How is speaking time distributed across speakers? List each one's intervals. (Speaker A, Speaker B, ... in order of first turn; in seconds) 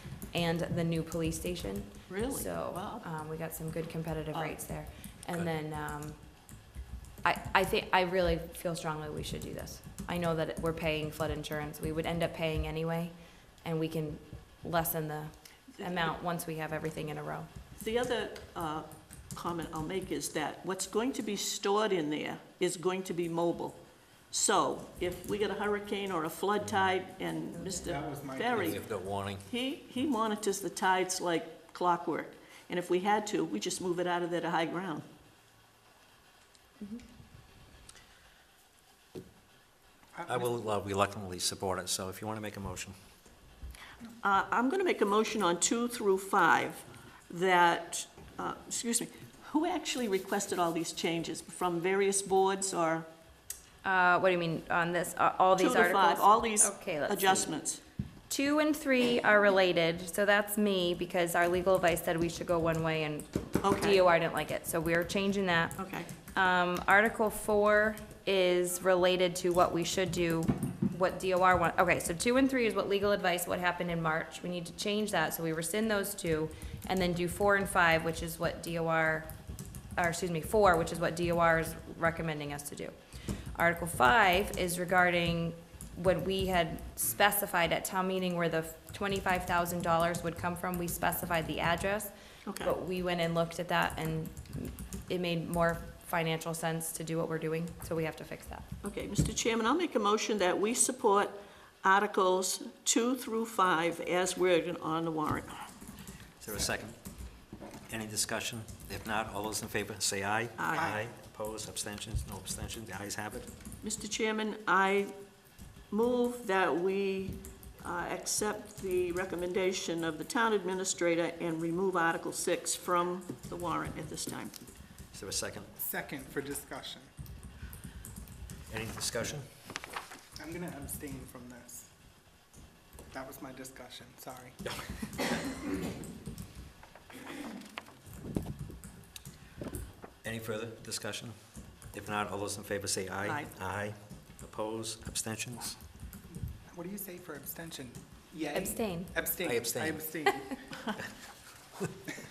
Speaker A: 0.3-6.2, 7.2-17.5, 27.6-27.8, 53.8-57.5, 58.3-65.8, 66.3-79.3, 80.0-82.9, 83.5-98.7, 148.5-149.1
Speaker B: 2.1-3.0, 15.8-16.1, 17.8-23.8, 24.3-28.8, 29.4-35.0, 44.2-53.1, 55.6-57.8, 63.6-64.0, 65.8-66.1, 92.5-92.7, 98.8-105.6, 110.6-110.9, 113.8-115.1, 115.9-124.5, 143.2-143.5
Speaker C: 27.9-28.8, 40.1-40.5, 125.8-127.1, 130.4-131.9, 133.1-134.6, 146.7-150.7
Speaker D: 28.5-29.5, 40.3-42.9, 106.4-107.0, 107.9-113.5, 125.1-125.7, 128.7-129.5, 140.2-141.3, 141.9-145.8, 149.4-150.0